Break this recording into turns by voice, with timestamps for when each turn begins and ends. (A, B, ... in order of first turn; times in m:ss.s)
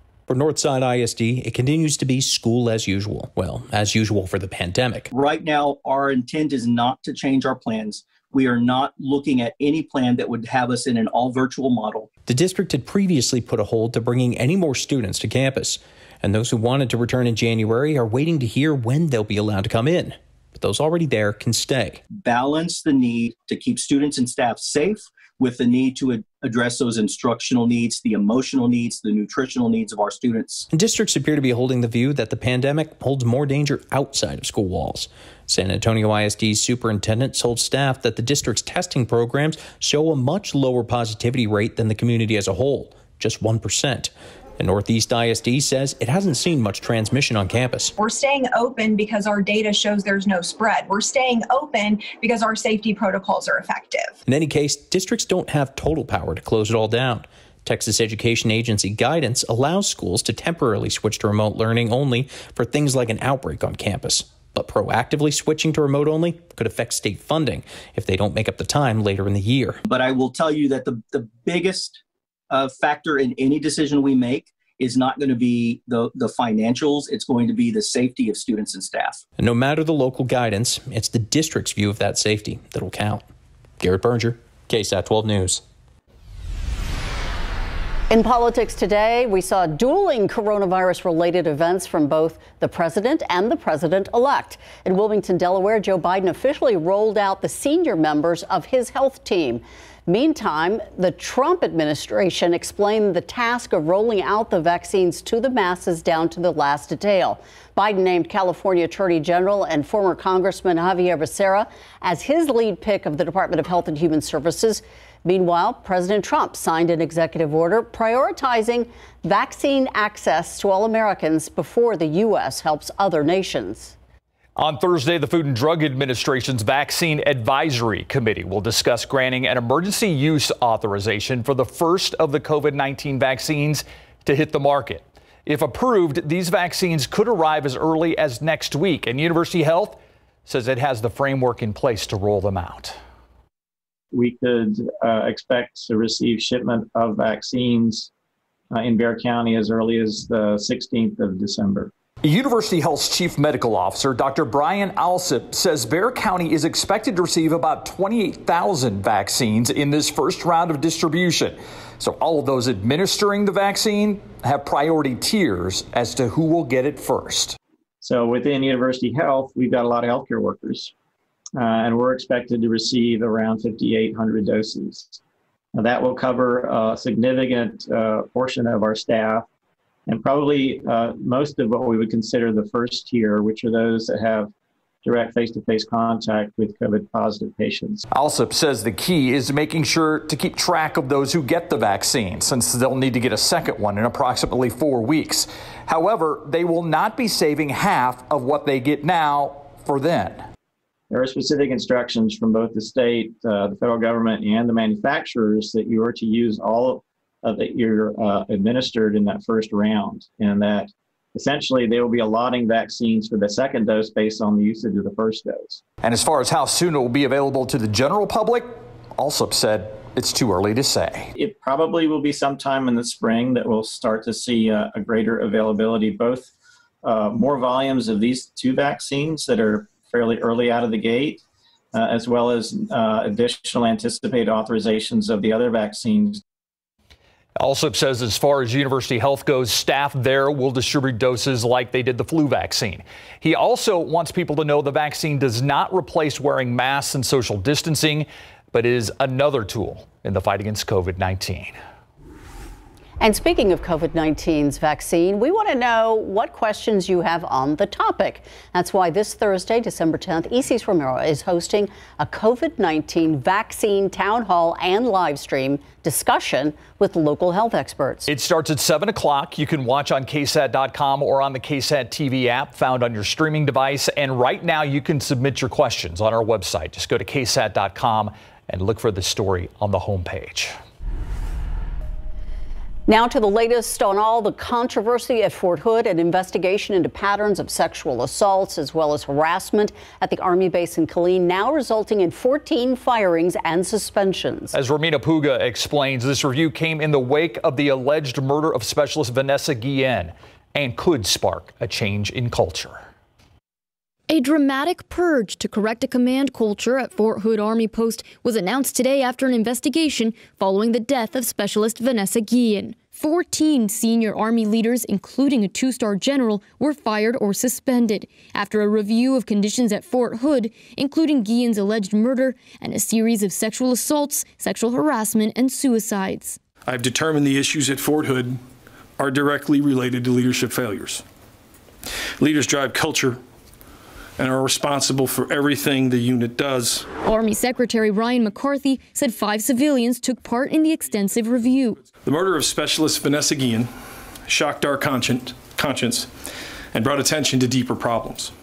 0:00.3-0:05.1 A
0:05.1-0:12.1 B
0:12.3-0:22.0 A
0:22.1-0:30.7 B
0:30.7-0:47.9 A
0:48.0-0:54.2 C
0:54.3-1:09.8 A
1:09.8-1:19.2 B
1:19.4-1:23.2 A
1:23.8-1:25.6 A
1:28.1-2:04.0 D
2:04.6-2:23.0 E
2:24.1-2:28.1 F
2:28.7-2:31.9 F
2:32.2-2:47.6 E
2:48.0-2:50.9 F
2:51.6-2:55.2 F
2:55.8-2:59.4 F
3:00.1-3:04.5 F
3:05.0-3:08.0 F
3:08.1-3:20.4 E
3:21.1-3:35.8 F
3:36.0-3:41.3 E
3:41.4-3:46.5 F
3:47.0-3:51.4 F
3:51.9-3:56.4 F
3:57.6-4:11.8 E
4:13.2-4:28.3 D
4:28.3-4:40.8 E
4:43.1-4:54.7 D
4:54.7-5:03.1 E
5:04.3-5:26.6 G
5:26.9-5:28.6 H
5:29.2-5:31.2 H
5:32.4-5:33.4 H
5:34.4-5:37.1 H
5:37.2-5:42.1 G
5:42.2-5:43.9 H
5:44.5-5:46.3 H
5:46.9-5:48.5 H